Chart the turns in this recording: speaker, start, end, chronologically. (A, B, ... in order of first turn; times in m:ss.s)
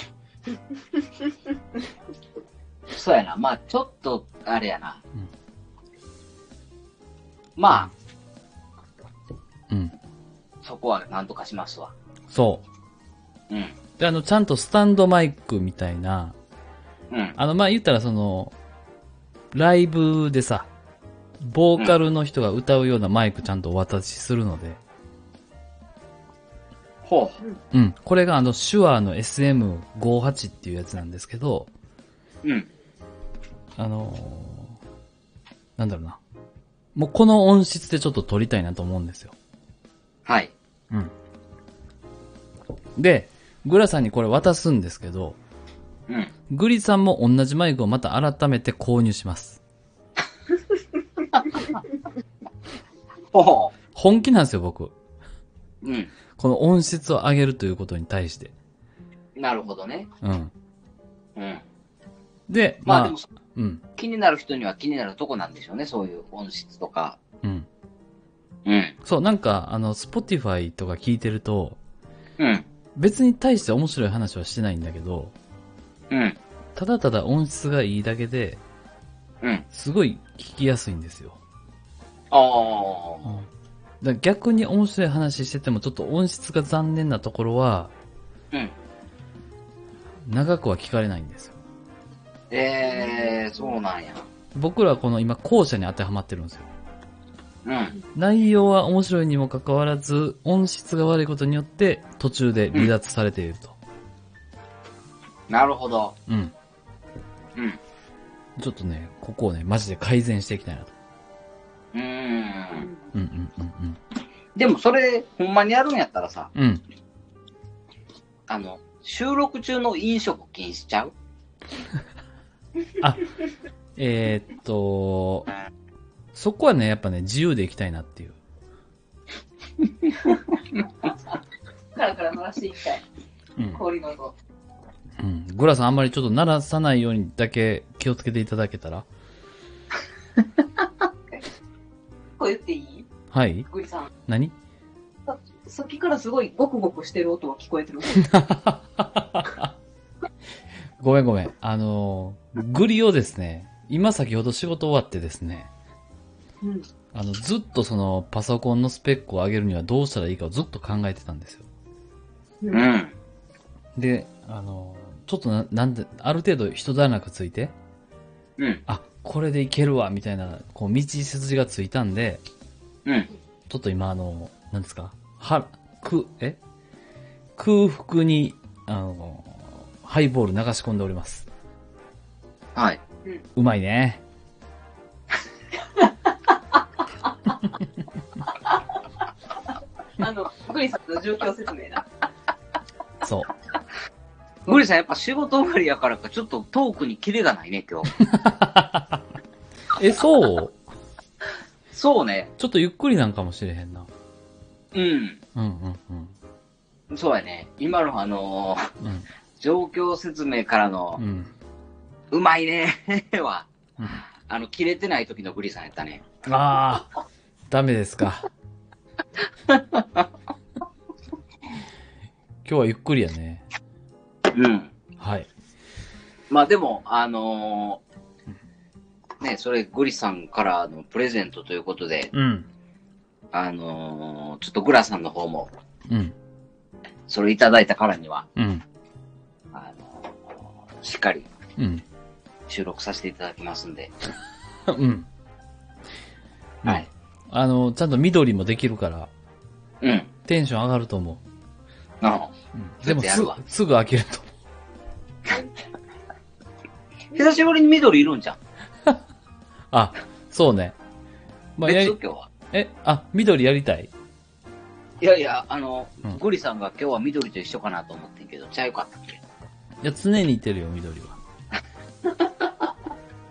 0:02.9-0:05.0 A
0:07.6-0:07.9 A
0:09.7-0:09.9 B
0:10.6-0:11.9 A
0:12.3-0:12.6 B
0:13.5-0:13.8 A
0:14.0-0:16.3 B
0:17.1-0:17.4 A
0:17.4-0:18.5 B
0:19.5-0:20.7 B
0:21.4-0:24.8 B
0:27.0-0:27.4 A
0:27.7-0:31.7 B
0:33.8-0:34.8 B
0:35.8-0:36.2 B
0:36.9-0:39.3 B
0:40.2-0:40.5 A
0:43.0-0:45.4 B
0:46.5-0:49.6 B
0:53.3-0:53.7 A
0:53.9-0:54.9 B
0:55.8-0:56.1 A
0:56.4-0:58.5 B
0:59.4-1:00.1 A
1:00.2-1:00.5 B
1:01.4-1:01.6 A
1:02.5-1:03.8 B
1:02.8-1:03.3 A
1:04.0-1:07.2 A
1:08.6-1:09.0 A
1:09.0-1:11.8 B
1:12.4-1:12.6 A
1:13.0-1:15.3 B
1:16.1-1:16.4 A
1:16.8-1:18.6 B
1:19.7-1:21.4 B
1:22.3-1:23.3 A
1:24.0-1:27.9 B
1:30.2-1:31.5 B
1:32.5-1:34.2 A
1:34.5-1:36.7 B
1:37.6-1:38.0 A
1:38.1-1:43.8 B
1:45.5-1:46.2 A
1:46.3-1:46.5 B
1:48.6-1:50.9 B
1:51.9-1:52.9 A
1:53.1-1:54.0 B
1:54.6-1:56.5 A
1:56.5-1:56.8 B
1:58.5-2:01.1 A
2:03.0-2:03.3 B
2:04.0-2:05.5 B
2:06.3-2:08.4 B
2:11.9-2:13.0 C
2:13.6-2:13.8 B
2:13.7-2:14.3 C
2:15.2-2:19.0 B
2:22.4-2:23.1 C
2:23.3-2:23.7 B
2:23.7-2:24.1 C
2:24.3-2:24.5 B
2:25.3-2:28.3 C
2:28.2-2:29.7 B
2:31.0-2:35.7 B
2:36.6-2:36.9 C
2:37.1-2:41.7 B
2:42.7-2:43.1 A
2:44.0-2:47.7 B
2:48.9-2:52.4 B
2:53.7-2:56.6 B
2:57.6-3:01.4 B
3:02.8-3:03.0 A
3:03.5-3:04.2 B
3:10.2-3:12.0 C
3:13.2-3:13.5 B
3:14.6-3:18.1 A
3:18.2-3:19.2 B
3:20.0-3:20.8 B
3:21.9-3:22.5 A
3:22.6-3:24.1 B
3:24.9-3:25.4 A
3:25.5-3:26.3 B
3:27.1-3:28.8 A
3:29.0-3:29.3 B
3:29.6-3:31.2 A
3:31.2-3:31.5 B
3:32.3-3:33.7 A
3:34.4-3:36.3 A
3:36.4-3:37.1 B
3:37.7-3:38.5 B
3:39.7-3:40.2 A
3:42.6-3:43.6 B
3:44.5-3:44.9 A
3:45.2-3:45.5 B
3:46.5-3:48.0 A
3:49.4-3:52.3 A
3:52.3-3:52.7 B
3:53.5-3:55.7 A
3:56.1-3:56.3 B
3:57.3-3:58.4 A
3:58.6-3:58.8 B
3:59.7-4:01.5 A
4:01.8-4:02.0 B
4:02.7-4:04.1 A
4:04.9-4:05.2 B
4:06.8-4:09.3 B
4:10.0-4:10.3 A
4:10.5-4:11.4 B
4:12.2-4:12.5 A
4:12.7-4:14.5 B
4:13.0-4:13.6 A
4:17.3-4:18.6 A
4:19.9-4:21.0 B
4:21.8-4:22.2 B
4:21.8-4:22.5 A
4:22.7-4:24.1 B
4:25.2-4:29.4 A
4:30.0-4:31.4 B